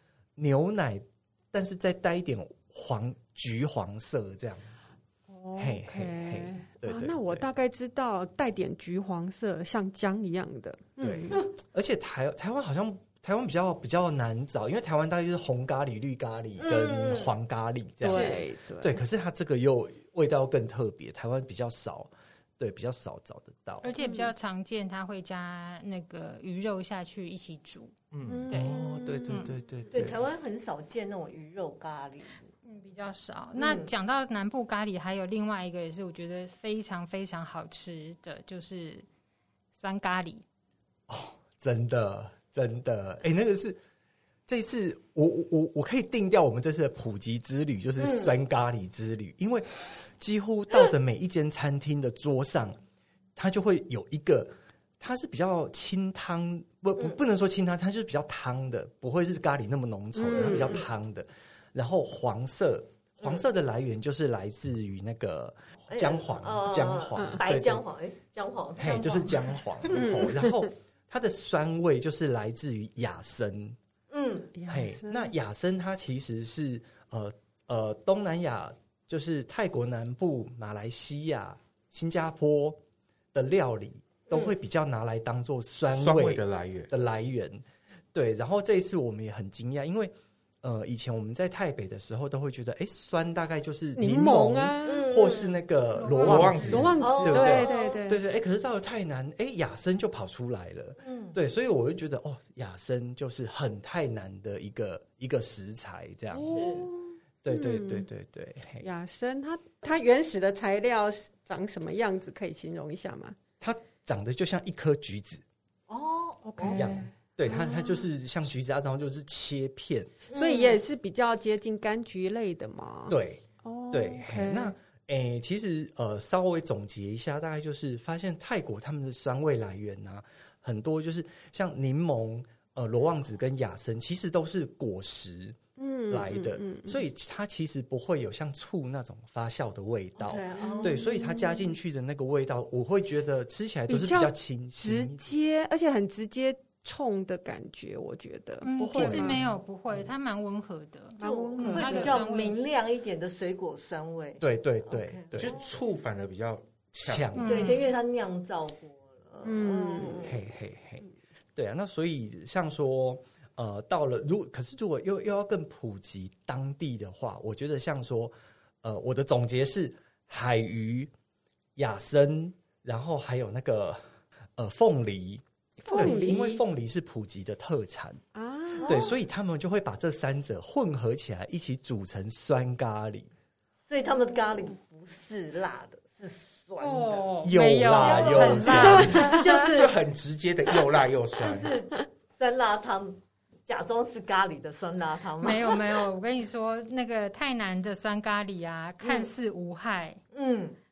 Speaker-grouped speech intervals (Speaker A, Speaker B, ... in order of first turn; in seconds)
Speaker A: 0.3-4.7, 5.6-7.5, 11.0-23.9, 28.5-30.2, 41.1-43.8, 44.5-52.8, 53.4-67.8, 68.8-73.8, 74.7-82.8, 83.3-87.6, 88.1-106.6, 107.4-108.9, 113.6-115.4, 116.7-120.1, 123.1-145.2, 148.8-149.5, 154.4-155.5, 157.0-157.7, 160.2-171.1, 171.8-174.0, 174.6-178.2, 178.8-183.3, 187.4-189.3
Speaker B: 5.3-11.4, 18.0-19.0, 24.0-24.3, 28.3-29.4, 60.2-60.8, 69.9-70.7, 74.5-75.3, 94.0-95.1, 96.6-98.2, 106.3-108.1, 108.8-113.3, 116.4-118.1, 120.3-124.7, 135.8-137.0, 140.6-141.7, 143.9-149.4, 151.2-152.2, 159.4-160.3, 175.8-176.6, 178.3-179.1, 189.2-189.5
Speaker C: 16.6-17.3, 18.0-18.4, 29.9-32.5, 33.5-33.9, 48.0-48.3, 60.3-60.9, 63.2-63.4, 65.9-69.4, 74.1-74.5, 84.3-84.5, 94.8-95.6, 97.0-98.0, 101.0-101.3, 106.5-106.9, 115.9-116.9, 120.3-120.8, 140.2-141.1, 151.2-155.7, 157.3-160.4, 178.7-179.1, 183.9-187.3, 187.9-190.0, 191.4-196.0, 199.0-199.3, 200.3-200.8
Speaker D: 23.8-27.9, 32.6-39.0, 39.8-40.4, 96.0-97.0, 148.6-152.6, 157.3-157.9, 186.8-189.4, 195.4-200.2
Speaker E: 28.1-28.5, 85.9-86.9, 96.2-97.0, 155.3-157.3, 189.5-191.8